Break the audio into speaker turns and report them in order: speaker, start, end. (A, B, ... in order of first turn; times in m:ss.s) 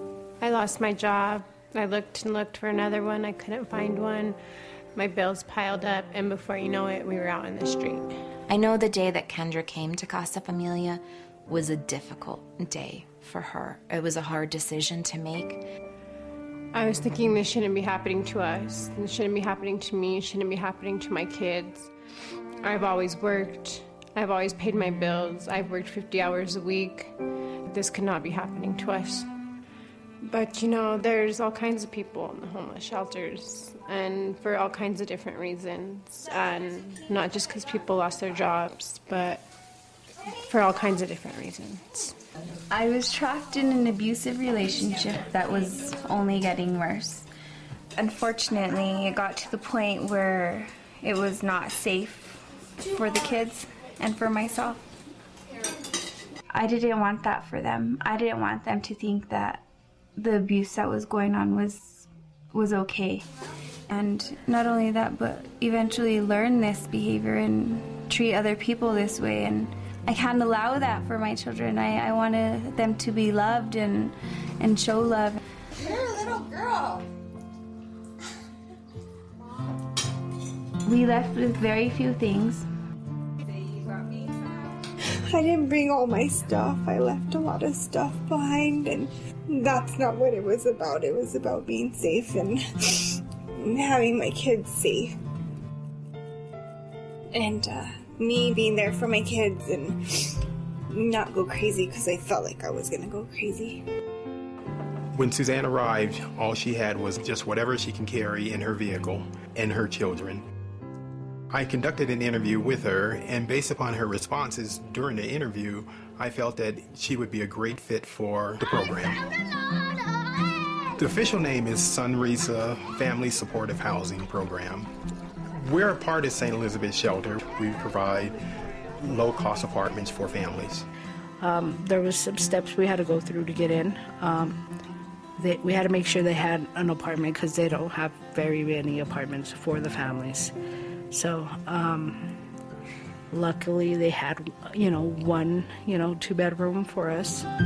0:00.4-0:04.4 A
0:05.0-0:08.1 A
0:08.5-0:15.6 B
0:16.7-0:21.9 A
0:22.6-0:27.1 A
0:27.7-0:29.3 A
0:30.2-0:39.4 A
0:40.4-0:42.1 A
0:42.7-0:47.3 C
0:48.0-0:54.8 C
0:56.5-0:59.6 C
1:00.2-1:03.2 C
1:03.9-1:15.4 C
1:20.8-1:22.6 C
1:25.2-1:33.0 D
1:33.6-1:35.1 D
1:37.3-1:40.0 D
1:40.9-1:43.8 D
1:45.1-1:50.4 E
1:51.5-1:59.2 E
2:01.0-2:04.9 E
2:05.6-2:08.4 E
2:09.0-2:10.8 E
2:11.4-2:14.6 F
2:15.4-2:20.5 F
2:21.1-2:22.4 F
2:23.3-2:27.4 F